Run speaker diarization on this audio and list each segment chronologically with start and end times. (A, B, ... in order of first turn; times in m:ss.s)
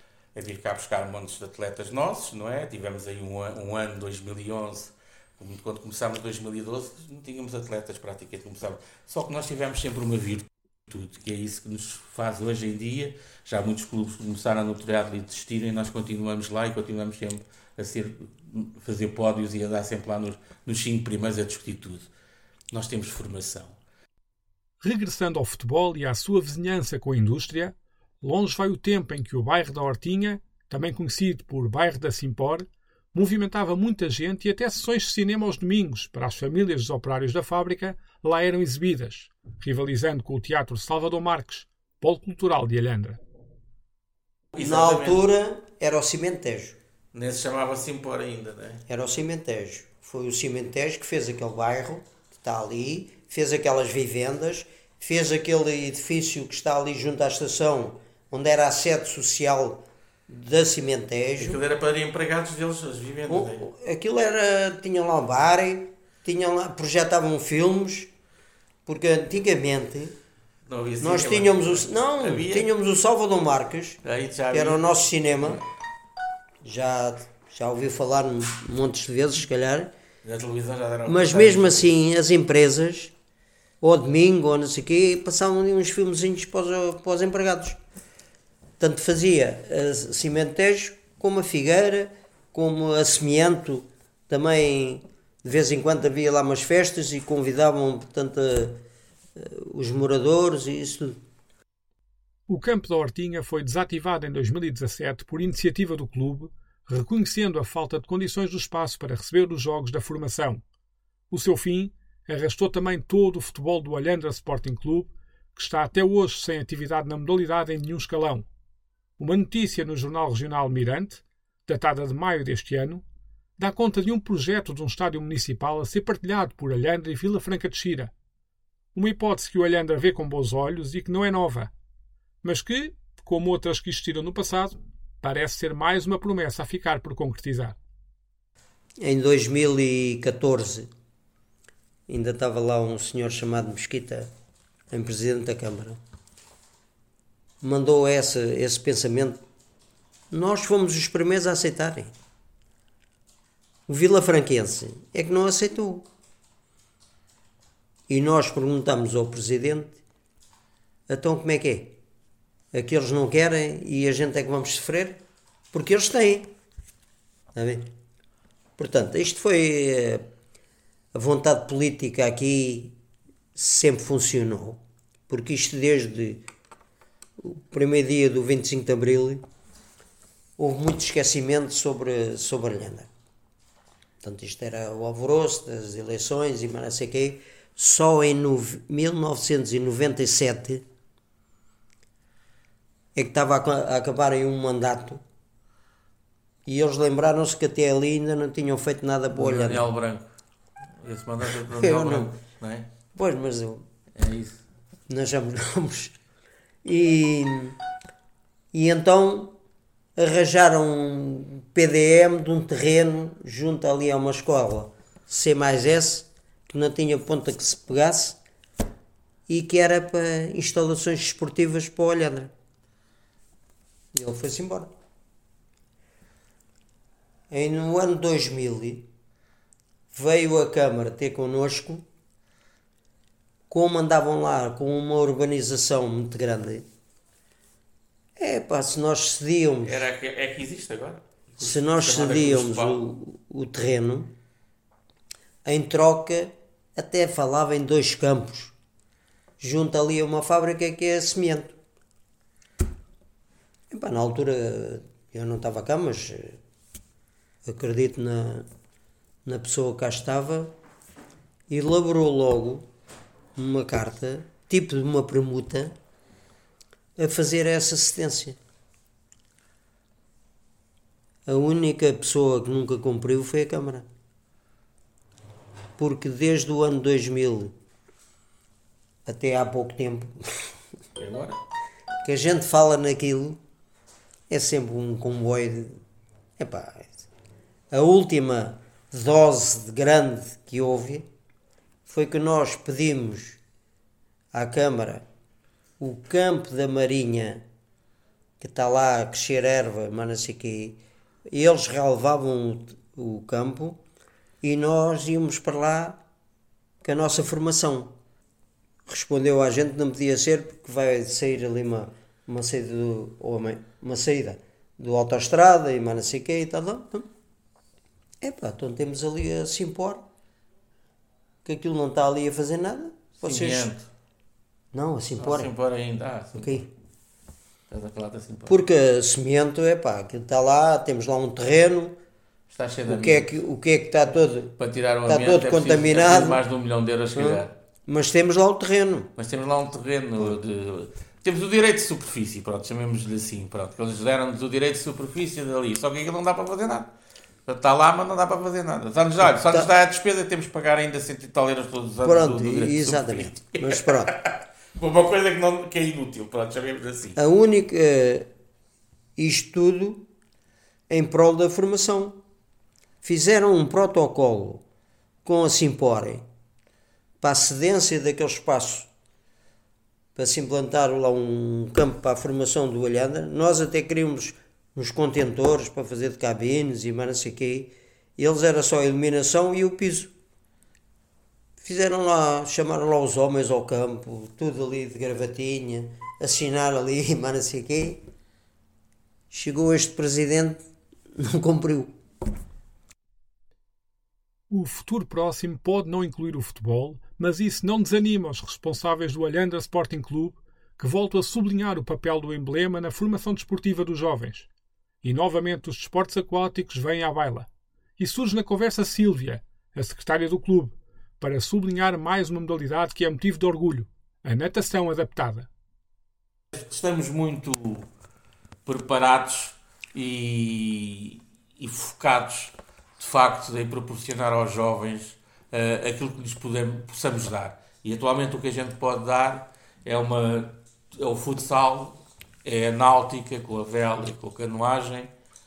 0:00.3-0:22.1 A
0:22.7-0:23.8 A
0:24.8-0:43.2 B
0:44.5-0:45.2 A
0:44.6-0:46.8 C
0:47.1-0:48.8 A
0:48.9-1:01.6 C
1:01.4-1:03.7 A
1:03.3-1:08.1 C
1:08.8-1:10.2 C
1:10.7-1:12.7 A
1:11.0-1:14.0 C
1:14.0-1:15.6 A
1:14.5-1:15.6 C
1:16.6-1:19.9 C
1:20.2-1:21.9 A
1:21.0-1:23.1 C
1:23.8-1:27.8 C
1:28.8-1:38.8 C
1:39.4-1:41.2 C
1:42.5-1:50.6 B
1:51.3-1:58.4 B
1:59.2-2:03.0 B
2:03.6-2:08.1 B
2:08.9-2:11.7 B
2:12.4-2:17.8 B
2:19.0-2:20.9 C
2:22.1-2:24.3 C
2:24.9-2:26.0 C
2:27.6-2:29.4 C
2:30.3-2:32.1 C
2:33.9-2:36.1 C
2:38.1-2:40.0 C
2:41.1-2:42.0 C
2:42.7-2:45.2 C
2:45.7-2:46.5 C
2:47.5-2:47.9 C
2:48.8-2:50.2 C
2:51.1-2:53.0 C
2:53.5-2:56.4 C
2:57.4-2:59.4 C
3:00.6-3:03.1 C
3:04.2-3:10.8 C
3:13.1-3:15.2 C
3:16.6-3:19.9 C
3:19.3-3:20.3 A
3:21.0-3:22.9 A
3:21.7-3:22.3 C
3:23.1-3:23.8 C
3:24.2-3:24.6 A
3:25.1-3:26.1 C
3:26.8-3:27.8 C
3:28.7-3:29.5 C
3:30.2-3:38.4 C
3:39.5-3:42.5 C
3:44.1-3:44.9 C
3:47.5-3:49.1 C
3:50.1-3:52.0 C
3:53.7-3:56.8 C
3:58.4-4:00.0 C
3:59.8-4:03.0 A
4:01.6-4:04.3 C
4:05.6-4:08.7 C
4:09.6-4:11.8 C
4:13.9-4:16.6 C
4:17.6-4:18.7 C
4:19.4-4:20.7 C
4:21.7-4:22.9 C
4:23.6-4:25.9 C
4:27.2-4:28.6 C
4:31.4-4:34.0 C
4:36.0-4:37.7 C
4:39.2-4:40.6 C
4:41.2-4:41.6 A
4:42.2-4:43.6 C
4:44.5-4:46.0 C
4:46.6-4:47.3 C
4:47.9-4:51.3 C
4:52.1-4:53.6 C
4:54.5-4:55.2 C
4:56.0-4:57.6 C
4:58.6-5:04.0 C
5:04.6-5:06.2 C
5:07.0-5:08.1 C
5:09.1-5:17.3 C
5:18.4-5:20.2 C
5:21.6-5:23.9 C
5:23.4-5:24.1 A
5:24.9-5:25.7 C
5:25.4-5:26.8 A
5:26.6-5:26.9 C
5:27.9-5:28.8 A
5:28.7-5:32.2 C
5:32.7-5:33.5 A
5:33.1-5:34.7 C
5:34.8-5:37.7 A
5:35.3-5:36.6 C
5:37.3-5:39.3 C
5:39.4-5:47.1 A
5:47.6-5:57.4 A
5:52.2-5:54.3 C
5:57.4-5:58.5 C
5:59.4-6:00.3 C
6:01.1-6:02.4 C
6:03.2-6:04.8 C
6:05.4-6:06.4 C
6:07.4-6:09.1 C
6:10.4-6:20.3 C
6:21.8-6:28.2 C
6:29.5-6:30.8 C
6:31.4-6:32.2 C
6:34.7-6:44.7 B
6:45.2-6:55.7 B
6:56.7-6:58.0 A
6:58.8-7:15.3 A